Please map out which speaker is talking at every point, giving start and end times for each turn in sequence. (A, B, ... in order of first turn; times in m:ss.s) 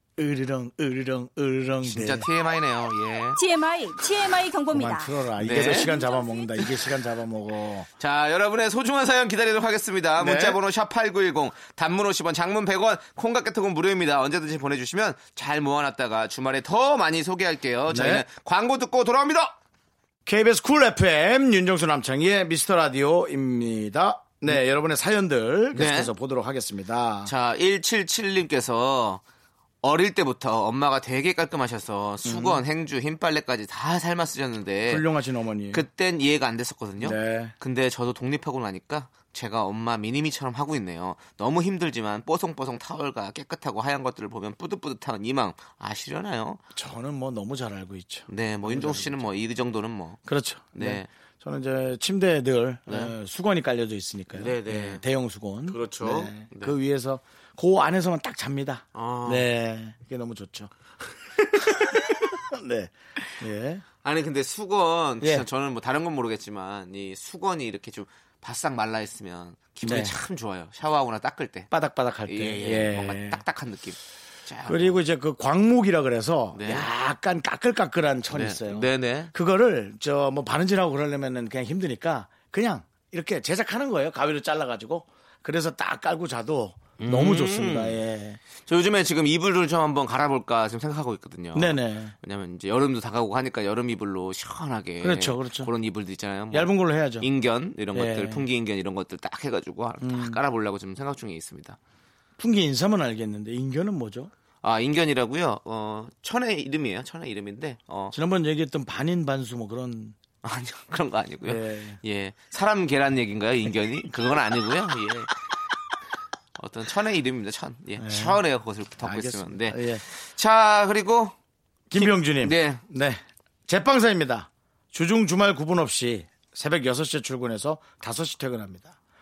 0:00.2-0:02.2 A
0:01.8-0:03.4 B
0:03.4-0:06.4 C
0:04.7-0:07.9 A
0:05.4-0:05.9 B
0:08.0-0:19.5 B
0:10.2-0:10.6 A
0:17.9-0:18.2 A
0:20.2-0:27.3 A
0:25.7-0:26.1 B
0:27.2-0:29.2 B
0:29.8-0:35.0 B
0:32.2-0:32.6 A
0:34.9-0:35.8 A
0:35.7-0:46.6 B
0:37.0-0:37.5 A
0:46.7-0:49.4 A
0:48.3-0:50.2 B
0:50.2-1:00.7 A
0:50.7-0:51.1 B
0:52.9-0:53.1 B
0:54.3-0:55.0 B
0:55.7-0:56.8 B
0:58.9-0:59.5 B
1:01.6-1:03.8 A
1:04.0-1:11.7 B
1:05.2-1:05.4 A
1:09.8-1:10.2 A
1:11.7-1:13.4 A
1:12.3-1:15.0 B
1:14.7-1:28.4 A
1:16.5-1:16.9 B
1:18.3-1:19.3 B
1:27.0-1:28.0 B
1:28.6-1:41.8 B
1:31.5-1:32.1 A
1:35.0-1:35.7 A
1:36.5-1:37.3 A
1:37.9-1:38.4 A
1:40.0-1:40.4 A
1:42.4-1:44.3 A
1:44.6-1:48.2 B
1:48.1-1:50.2 A
1:50.4-1:55.4 B
1:51.4-1:52.0 A
1:56.6-2:01.3 B
1:58.0-1:58.4 A
1:59.0-2:00.0 A
2:01.9-2:09.0 A
2:01.9-2:02.8 B